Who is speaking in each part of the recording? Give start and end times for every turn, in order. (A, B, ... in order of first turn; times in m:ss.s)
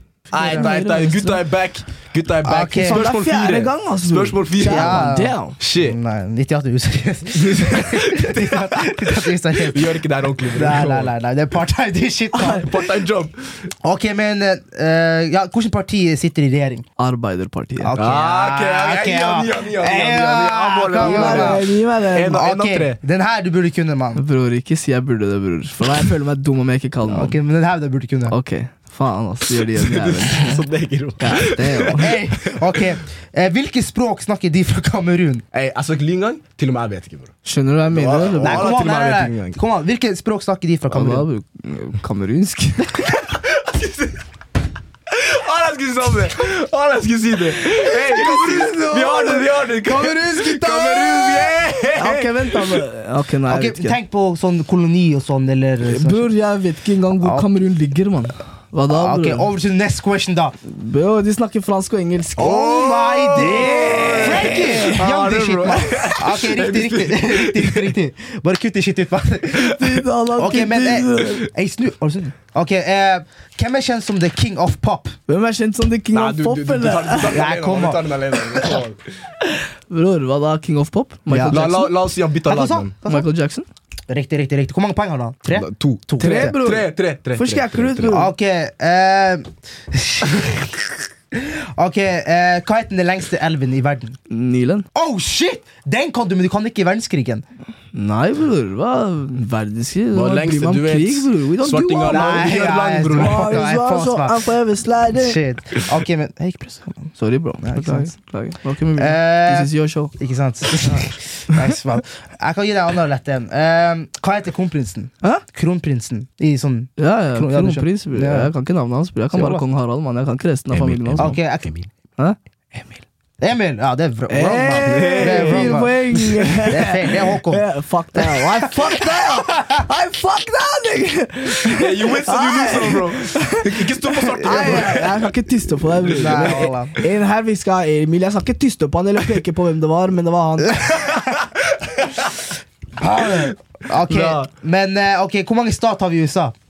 0:00.3-0:01.4 A
0:00.3-0:05.1 B
0:02.4-0:03.1 C
0:02.8-0:05.6 A
0:04.6-0:12.8 C
0:05.6-0:06.0 B
0:07.4-0:11.1 B
0:12.3-0:12.7 A
0:12.6-0:13.7 B
0:13.8-0:16.8 C
0:17.0-0:17.9 A
0:17.8-0:21.7 C
0:18.0-0:23.0 B
0:21.0-0:22.4 A
0:22.3-0:24.2 C
0:24.2-0:27.4 A
0:27.0-0:28.4 C
0:28.3-0:30.7 A
0:29.6-0:32.8 B
0:31.2-0:32.2 A
0:31.9-0:35.4 C
0:35.5-0:37.4 B
0:37.4-0:38.7 A
0:37.9-0:39.6 B
0:38.4-0:41.3 C
0:40.9-0:43.2 A
0:43.3-0:44.2 B
0:45.1-0:52.8 B
0:47.6-0:54.0 A
0:53.5-0:56.3 C
0:55.8-0:59.5 A
0:57.2-0:57.5 C
0:58.9-1:00.6 C
1:00.6-1:06.1 A
1:02.4-1:09.8 C
1:02.4-1:07.9 B
1:09.6-1:11.5 A
1:10.3-1:15.2 C
1:15.3-1:17.4 A
1:16.1-1:19.0 B
1:17.3-1:18.1 C
1:19.4-1:21.9 A
1:21.3-1:21.6 C
1:21.5-1:22.9 B
1:22.4-1:23.3 C
1:23.1-1:23.7 A
1:24.1-1:26.6 C
1:25.5-1:28.2 B
1:26.2-1:28.3 A
1:28.1-1:34.2 C
1:34.3-1:34.9 A
1:34.9-1:37.4 C
1:37.9-1:42.5 A
1:40.1-1:43.6 B
1:42.0-1:44.5 C
1:43.1-1:45.4 A
1:45.1-1:48.1 C
1:47.2-1:50.1 A
1:49.0-1:58.5 C
1:50.8-1:51.0 A
1:57.0-2:01.4 A
1:59.3-1:59.6 C
2:00.7-2:01.9 B
2:01.2-2:01.7 C
2:02.2-2:03.0 A
2:03.4-2:07.6 C
2:04.3-2:20.9 A
2:04.7-2:05.9 B
2:08.2-2:09.8 C
2:11.6-2:15.3 B
2:16.1-2:16.6 B
2:16.1-2:16.9 C
2:21.0-2:22.4 B
2:23.0-2:26.5 C
2:24.1-2:24.5 B